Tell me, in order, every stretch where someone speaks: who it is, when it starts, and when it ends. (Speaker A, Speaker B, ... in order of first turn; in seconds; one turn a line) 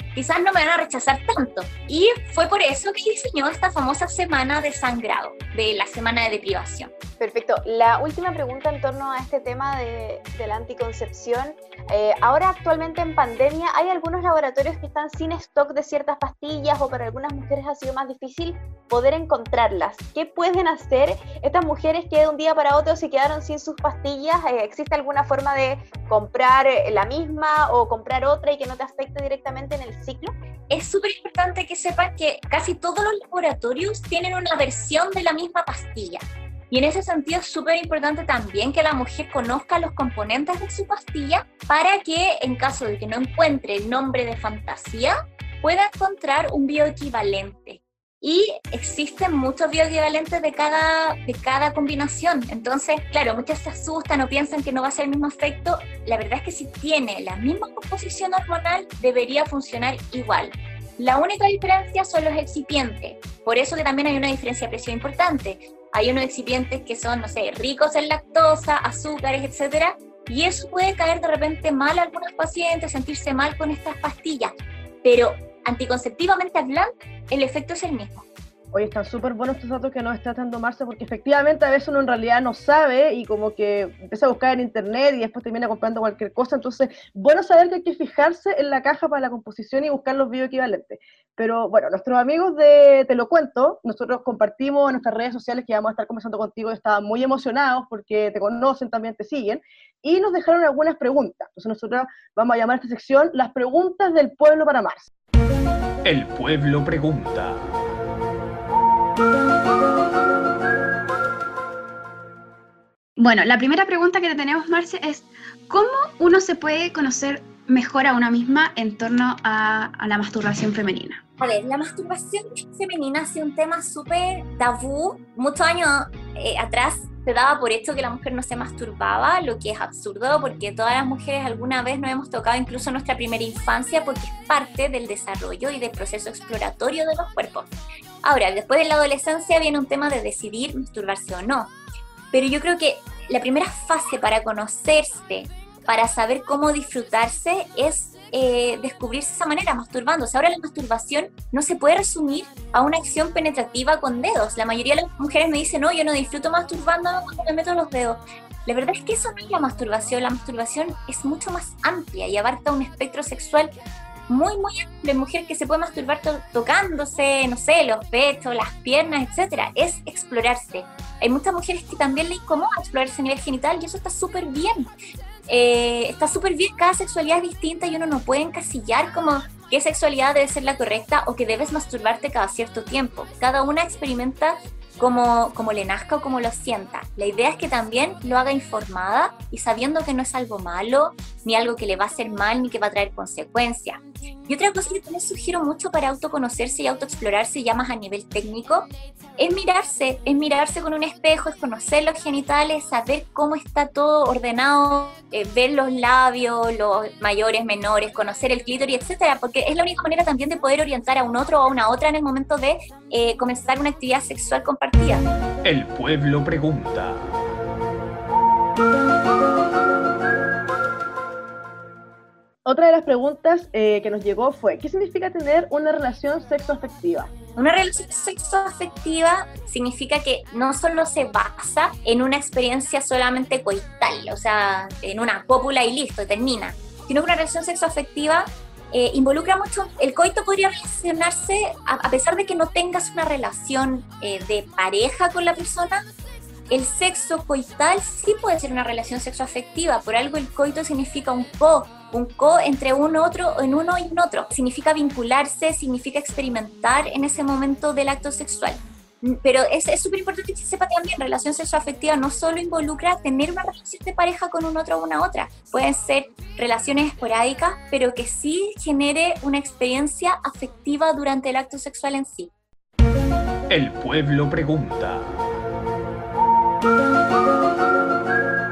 Speaker A: 0.1-6.9
Speaker B: 7.2-30.3
Speaker A: 30.7-45.1
Speaker A: 45.6-74.5
Speaker A: 75.0-78.2
Speaker C: 78.7-105.1
Speaker D: 106.0-107.7
Speaker E: 113.2-121.2
Speaker A: 121.4-137.7
Speaker A: 138.2-141.7
Speaker A: 142.3-163.7
Speaker A: 164.3-174.9
Speaker A: 175.5-215.3
Speaker D: 215.6-217.3
Speaker C: 222.7-227.3
Speaker A: 227.6-246.0
Speaker A: 246.7-272.5
Speaker D: 273.7-275.3